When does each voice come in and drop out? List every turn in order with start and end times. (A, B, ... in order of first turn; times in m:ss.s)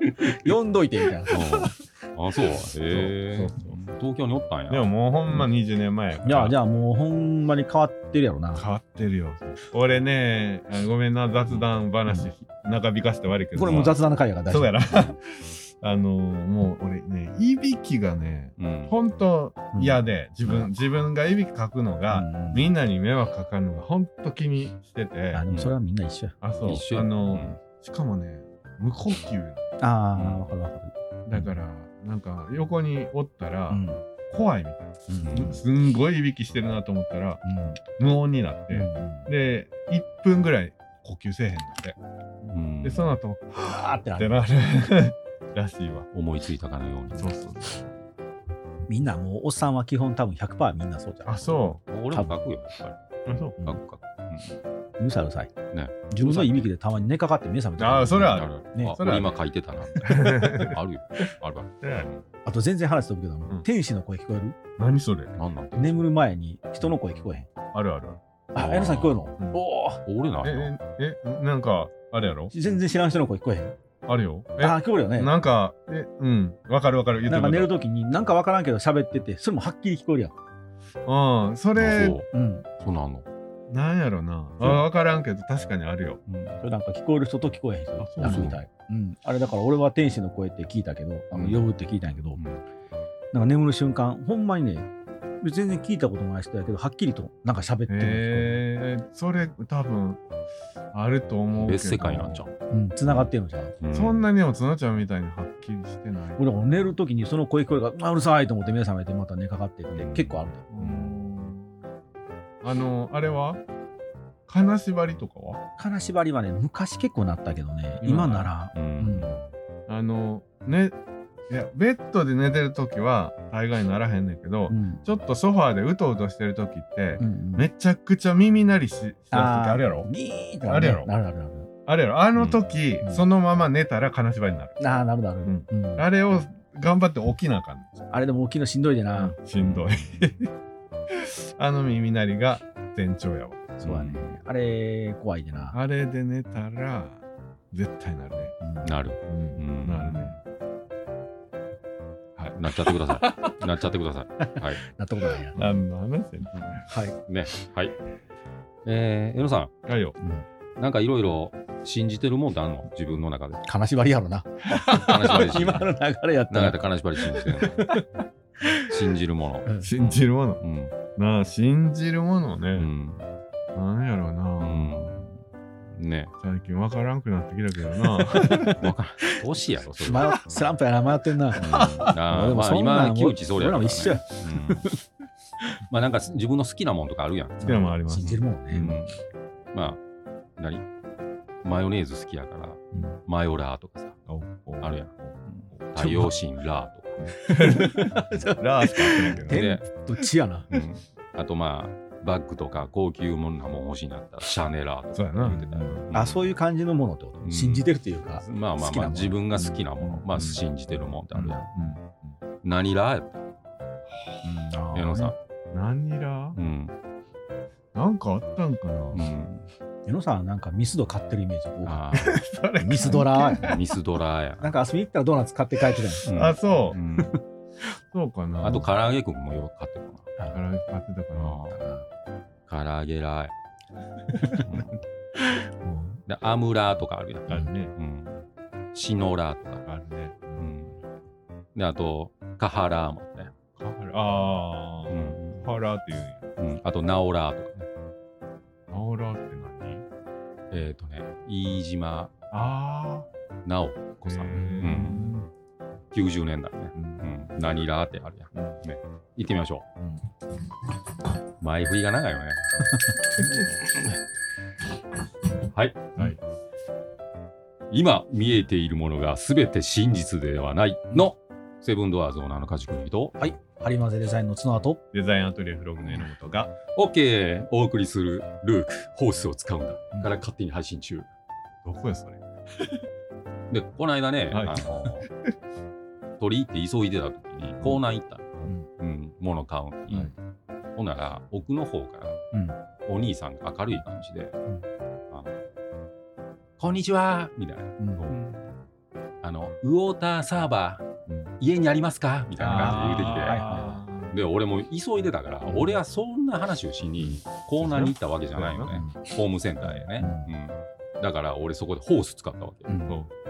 0:00.2-0:01.6 A
0:01.3-0:04.9 B
0:02.9-0:03.8 C
0:04.7-0:06.6 C
0:06.2-0:08.6 A
0:08.5-0:14.0 C
0:13.6-0:14.8 A
0:13.6-0:14.0 B
0:14.5-0:25.4 C
0:18.6-0:19.0 B
0:19.7-0:20.7 A
0:22.1-0:22.7 A
0:25.3-0:26.4 A
0:26.4-0:29.7 C
0:26.7-0:27.6 B
0:29.8-0:31.5 A
0:30.2-0:30.5 B
0:31.3-0:42.0 C
0:33.7-0:34.0 A
0:35.1-0:35.6 A
0:35.2-0:35.6 B
0:37.4-0:37.8 A
0:38.7-0:39.3 A
0:42.4-0:43.1 B
0:42.8-0:43.6 C
0:43.5-0:44.5 A
0:44.2-0:46.1 C
0:46.1-0:47.3 B
0:47.1-0:47.9 C
0:48.9-0:51.6 A
0:51.2-0:51.8 C
0:51.9-0:54.6 B
0:53.2-0:53.5 C
0:55.0-0:55.5 A
0:55.7-0:56.7 B
0:56.1-0:59.0 A
0:57.8-0:59.4 C
0:58.2-1:02.2 B
1:00.0-1:00.8 C
1:01.8-1:02.1 C
1:02.4-1:04.6 A
1:04.8-1:05.3 C
1:05.4-1:06.1 B
1:05.8-1:07.5 A
1:07.7-1:08.2 C
1:08.6-1:10.0 A
1:08.6-1:09.3 B
1:10.0-1:10.7 B
1:10.4-1:12.5 C
1:12.5-1:13.8 A
1:14.1-1:17.7 C
1:14.6-1:15.3 A
1:17.2-1:20.4 A
1:21.1-1:22.2 C
1:21.8-1:22.3 B
1:22.3-1:22.7 A
1:22.8-1:23.2 B
1:23.7-1:26.2 C
1:26.3-1:26.6 B
1:26.6-1:32.4 A
1:28.0-1:28.5 C
1:28.2-1:28.6 B
1:31.3-1:31.7 B
1:32.4-1:32.6 B
1:33.3-1:34.9 A
1:35.4-1:38.6 A
1:37.9-1:40.2 C
1:40.9-1:42.5 C
1:41.6-1:42.5 B
1:42.7-1:43.7 A
1:43.8-1:44.2 B
1:43.9-1:46.8 C
1:46.4-1:50.6 A
1:49.9-1:51.2 B
1:50.7-1:51.8 C
1:52.6-1:53.6 C
1:54.5-1:55.6 C
1:55.8-1:59.4 A
1:58.0-1:58.5 C
1:58.7-1:59.5 B
1:59.9-2:01.0 C
2:01.5-2:10.1 C
2:04.7-2:05.0 A
2:07.2-2:07.7 A
2:09.3-2:11.7 A
2:10.7-2:11.1 C
2:11.9-2:14.8 C
2:12.4-2:12.6 B
2:14.8-2:16.1 A
2:15.4-2:18.1 C
2:18.1-2:19.4 A
2:19.1-2:20.5 C
2:19.6-2:20.3 B
2:21.1-2:23.8 C
2:23.8-2:25.8 A
2:23.8-2:24.4 B
2:25.7-2:28.5 C
2:28.6-2:28.9 A
2:28.8-2:30.4 B
2:29.3-2:30.4 C
2:32.4-2:33.5 C
2:32.6-2:34.8 B
2:34.4-2:35.6 A
2:35.6-2:36.8 C
2:36.9-2:37.2 A
2:37.3-2:37.9 B
2:38.8-2:39.7 B
2:39.9-2:40.1 C
2:40.2-2:40.4 A
2:40.8-2:43.6 B
2:43.6-2:46.8 A
2:44.8-2:45.9 B
2:46.5-2:48.0 B
2:47.3-2:48.0 A
2:48.6-2:48.9 A
2:48.9-2:51.0 B
2:49.8-2:50.6 C
2:51.2-2:52.9 C
2:52.8-2:53.3 B
2:53.7-2:55.2 C
2:54.6-2:55.4 B
2:55.9-2:56.3 B
2:56.4-2:58.8 C
2:58.3-2:59.4 A
2:58.6-3:00.4 B
3:00.0-3:05.0 A
3:01.6-3:04.9 B
3:01.7-3:02.0 C
3:05.9-3:09.1 B
3:07.6-3:08.9 A
3:07.6-3:08.9 C
3:09.7-3:10.0 B
3:10.6-3:10.8 B
3:11.6-3:14.2 B
3:12.9-3:13.2 A
3:14.3-3:16.3 C
3:14.8-3:17.2 B
3:17.2-3:19.6 C
3:17.4-3:20.7 A
3:19.4-3:19.8 B
3:20.7-3:26.5 B
3:25.1-3:26.1 C
3:26.1-3:30.2 A
3:27.4-3:31.6 B
3:30.3-3:30.6 C
3:31.4-3:31.7 A
3:31.4-3:32.4 C
3:32.6-3:33.5 B
3:34.1-3:34.5 C
3:34.4-3:35.3 A
3:34.9-3:35.3 B
3:35.7-3:36.6 C
3:36.6-3:36.9 B
3:37.9-3:39.2 C
3:39.1-3:39.7 B
3:40.1-3:42.2 A
3:41.8-3:42.4 B
3:42.1-3:43.8 C
3:42.8-3:43.7 A
3:43.6-3:44.7 B
3:44.6-3:46.3 A
3:46.2-3:47.4 B
3:46.3-3:47.0 C
3:48.1-3:48.9 C
3:48.6-3:50.3 B
3:50.5-3:51.6 C
3:51.4-3:51.8 B
3:51.7-3:52.0 A
3:52.7-3:53.5 B
3:54.4-3:54.7 A
3:54.6-3:55.0 B
3:55.8-3:56.2 A
3:56.3-3:58.4 B
3:57.5-3:57.9 C
3:58.9-3:59.8 B
3:59.9-4:00.7 C
4:00.6-4:01.0 B
4:01.8-4:03.5 B
4:03.8-4:06.4 C
4:05.1-4:05.7 B
4:06.6-4:07.9 B
4:08.9-4:10.0 C
4:10.7-4:12.3 B
4:12.5-4:13.3 C
4:13.6-4:15.2 B
4:14.2-4:15.4 C
4:14.5-4:15.4 A
4:16.1-4:19.8 B
4:16.9-4:17.3 C
4:21.6-4:22.6 B
4:23.4-4:24.1 B
4:25.7-4:26.3 B
4:27.9-4:33.4 B
4:33.4-4:35.0 A
4:35.1-4:36.7 C
4:36.9-4:41.3 B
4:41.8-4:42.4 C
4:43.7-4:45.3 B
4:44.5-4:44.9 C
4:46.4-4:50.3 B
4:51.0-4:52.4 B
4:52.5-4:52.8 A
4:53.0-4:54.6 B
4:56.8-4:58.4 B
4:58.0-4:58.3 A
4:59.4-5:01.0 B
5:01.2-5:01.5 C
5:01.6-5:12.9 B
5:02.6-5:03.9 A
5:02.6-5:04.4 C
5:05.7-5:06.0 A
5:07.2-5:09.0 C
5:08.9-5:09.2 A
5:10.2-5:10.5 A
5:12.9-5:13.2 A